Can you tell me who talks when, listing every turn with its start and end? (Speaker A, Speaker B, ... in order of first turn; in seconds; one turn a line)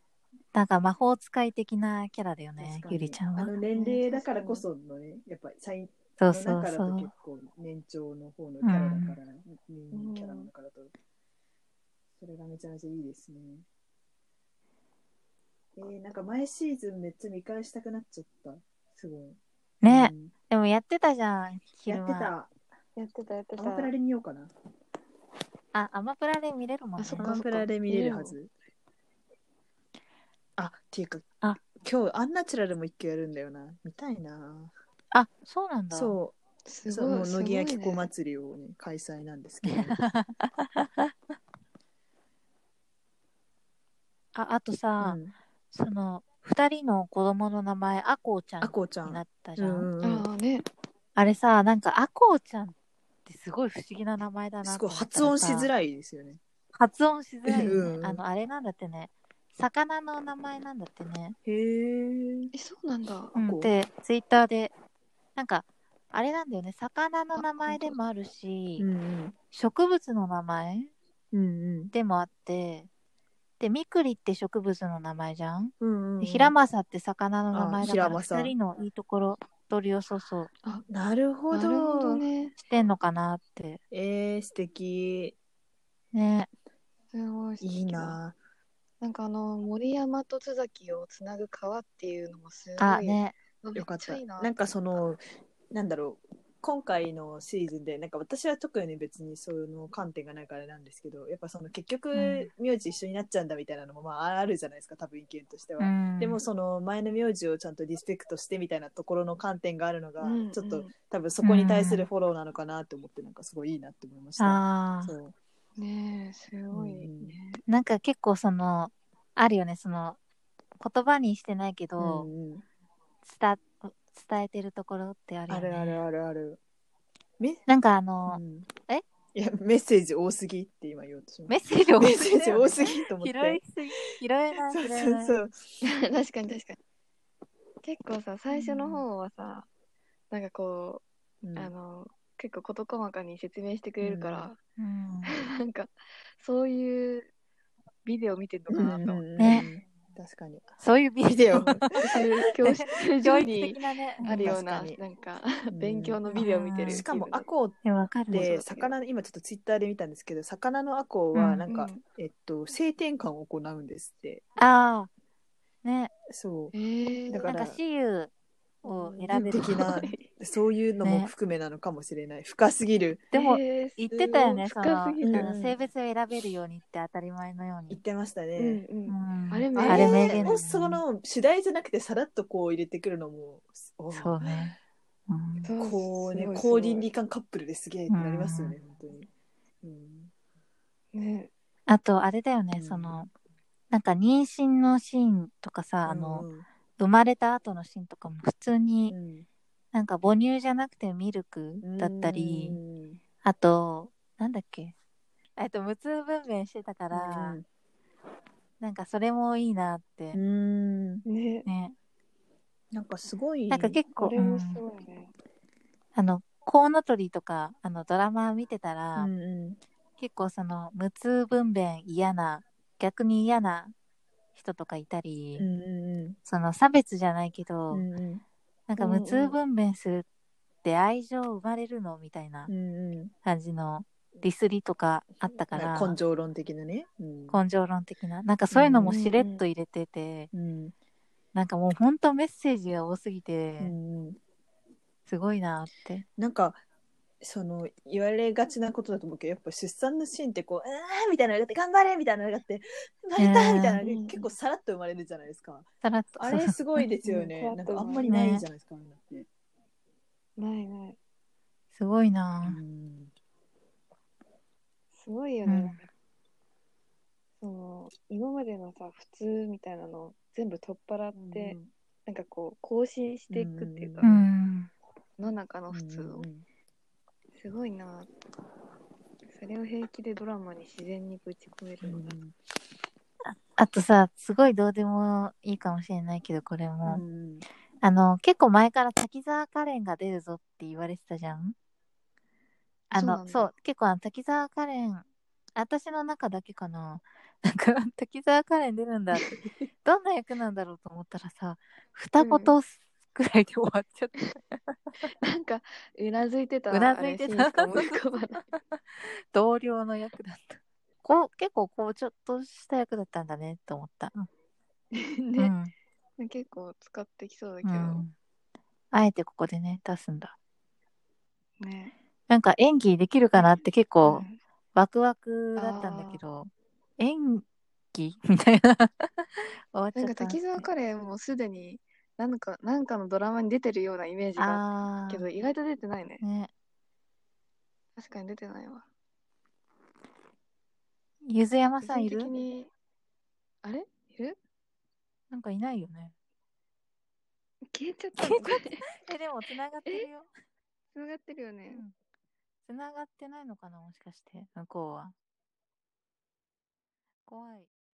Speaker A: 0.5-3.5
Speaker B: 2.6-10.9
Speaker C: 3.7-4.7
Speaker A: 6.2-7.1
Speaker A: 8.6-9.2
Speaker C: 9.9-10.5
Speaker B: 12.2-13.7
Speaker B: 15.8-20.3
Speaker A: 19.8-22.3
Speaker B: 21.9-22.5
Speaker C: 23.0-23.9
Speaker B: 23.6-24.5
Speaker A: 25.7-27.4
Speaker C: 27.0-28.4
Speaker B: 27.2-28.5
Speaker B: 30.6-34.7
Speaker A: 35.1-36.2
Speaker B: 35.9-36.4
Speaker C: 36.7-38.1
Speaker B: 36.9-40.0
Speaker A: 39.7-41.1
Speaker A: 44.4-45.2
Speaker B: 45.0-45.3
Speaker A: 45.7-49.9
Speaker B: 48.6-50.3
Speaker C: 50.0-50.7
Speaker A: 51.2-55.7
Speaker B: 54.6-56.4
Speaker A: 56.8-61.4
Speaker B: 57.5-58.2
Speaker C: 57.6-57.9
Speaker B: 61.5-62.5
Speaker C: 62.5-63.4
Speaker A: 63.4-64.7
Speaker B: 63.4-63.8
Speaker A: 65.4-68.9
Speaker C: 67.4-68.0
Speaker B: 68.8-69.4
Speaker A: 69.5-70.9
Speaker B: 71.3-71.9
Speaker A: 71.9-72.9
Speaker A: 73.6-80.5
Speaker B: 75.8-76.5
Speaker B: 77.5-78.5
Speaker B: 80.9-82.2
Speaker C: 81.5-82.6
Speaker A: 82.6-83.8
Speaker B: 83.9-85.4
Speaker A: 86.1-86.5
Speaker C: 87.1-88.2
Speaker B: 87.6-88.4
Speaker C: 89.0-94.8
Speaker A: 92.8-93.3
Speaker B: 93.8-115.3
Speaker A: 102.1-102.5
Speaker A: 105.8-106.4
Speaker C: 110.2-110.9
Speaker A: 111.4-112.1
Speaker A: 114.4-115.2
Speaker C: 115.8-117.6
Speaker B: 116.7-117.4
Speaker A: 117.7-120.2
Speaker A: 120.8-122.3
Speaker B: 122.0-122.7
Speaker A: 123.2-126.0
Speaker B: 125.5-126.6
Speaker B: 127.4-127.7
Speaker A: 127.7-129.0
Speaker B: 128.3-128.7
Speaker B: 129.3-133.6
Speaker A: 131.5-135.3
Speaker B: 134.7-135.8
Speaker C: 135.8-136.8
Speaker C: 137.8-139.7
Speaker A: 138.5-139.1
Speaker C: 140.3-141.0
Speaker B: 141.4-141.7
Speaker C: 141.6-144.6
Speaker B: 144.0-144.5
Speaker A: 144.8-145.3
Speaker C: 145.3-147.3
Speaker C: 148.1-149.7
Speaker B: 148.7-150.7
Speaker A: 149.4-149.7
Speaker A: 150.8-152.1
Speaker B: 151.3-152.2
Speaker C: 151.9-157.5
Speaker A: 152.7-154.5
Speaker B: 154.3-155.0
Speaker B: 155.7-157.8
Speaker A: 156.4-157.0
Speaker A: 157.8-158.5
Speaker B: 158.3-164.4
Speaker C: 158.3-158.9
Speaker A: 161.3-161.7
Speaker C: 161.7-162.0
Speaker A: 164.6-165.1
Speaker A: 165.8-166.1
Speaker B: 166.3-166.7
Speaker C: 166.7-167.5
Speaker B: 167.3-167.8
Speaker A: 167.4-168.3
Speaker A: 168.8-169.9
Speaker B: 168.9-173.2
Speaker C: 169.4-170.3
Speaker A: 171.0-171.3
Speaker C: 173.3-175.5
Speaker A: 173.3-178.0
Speaker B: 175.2-175.8
Speaker B: 177.9-178.8
Speaker C: 178.6-180.5
Speaker A: 179.1-181.0
Speaker B: 179.8-184.7
Speaker A: 184.1-184.8
Speaker A: 185.3-185.7
Speaker C: 185.6-187.1
Speaker B: 185.8-189.3
Speaker A: 188.1-188.8
Speaker B: 189.8-190.3
Speaker C: 191.1-191.5
Speaker A: 191.9-193.3
Speaker B: 192.7-193.3
Speaker A: 193.9-199.2
Speaker B: 196.1-196.7
Speaker B: 199.1-199.5
Speaker A: 199.9-202.8
Speaker B: 201.8-203.2
Speaker A: 203.4-204.9
Speaker A: 205.6-207.6
Speaker B: 207.1-207.7
Speaker A: 208.8-210.4
Speaker B: 210.3-211.2
Speaker C: 211.3-211.7
Speaker A: 211.7-212.0
Speaker B: 212.9-214.0
Speaker A: 213.7-214.8
Speaker C: 214.2-215.3
Speaker A: 216.2-219.3
Speaker B: 219.2-219.8
Speaker A: 220.2-223.9
Speaker A: 224.6-225.7
Speaker B: 225.6-226.4
Speaker A: 226.5-228.1
Speaker B: 227.9-228.4
Speaker A: 228.9-230.3
Speaker C: 229.0-229.6
Speaker A: 230.8-232.7
Speaker B: 232.7-233.3
Speaker A: 233.4-236.2
Speaker B: 235.7-237.6
Speaker A: 237.5-240.5
Speaker B: 238.7-239.2
Speaker C: 239.0-239.6
Speaker B: 240.5-240.9
Speaker A: 241.5-243.9
Speaker B: 243.8-244.4
Speaker A: 245.3-246.3
Speaker B: 246.4-246.8
Speaker B: 247.4-255.9
Speaker A: 253.4-254.0
Speaker C: 254.0-254.5
Speaker A: 256.0-257.0
Speaker B: 256.4-259.5
Speaker C: 257.2-258.3
Speaker A: 258.3-258.7
Speaker C: 260.6-261.2
Speaker A: 261.9-262.8
Speaker B: 262.6-263.3
Speaker C: 265.1-266.1
Speaker A: 265.7-266.0
Speaker C: 267.6-274.3
Speaker B: 271.4-271.9
Speaker B: 273.5-274.4
Speaker A: 274.2-274.9
Speaker C: 275.4-276.5
Speaker B: 275.9-276.6
Speaker C: 277.5-278.3
Speaker C: 279.5-282.3
Speaker B: 282.0-282.6
Speaker A: 283.4-287.2
Speaker B: 287.0-287.7
Speaker A: 288.0-291.8
Speaker A: 293.1-295.2
Speaker C: 293.1-293.7
Speaker A: 295.8-305.0
Speaker B: 299.6-299.9
Speaker C: 302.4-302.8
Speaker C: 305.4-308.6
Speaker A: 306.9-314.5
Speaker C: 315.1-315.7
Speaker A: 315.6-315.9
Speaker C: 316.4-318.2
Speaker A: 317.8-318.3
Speaker A: 319.1-320.6
Speaker C: 321.8-322.1
Speaker A: 322.5-330.9
Speaker C: 323.6-324.6
Speaker C: 325.8-326.4
Speaker C: 330.1-336.4
Speaker A: 334.6-335.5
Speaker A: 336.4-336.7
Speaker C: 338.2-339.1
Speaker A: 341.5-342.5
Speaker C: 342.0-342.9
Speaker C: 343.8-344.6
Speaker A: 345.5-346.3
Speaker C: 347.9-349.1
Speaker A: 348.4-350.5
Speaker C: 351.1-352.0
Speaker A: 352.9-355.3
Speaker A: 357.5-357.9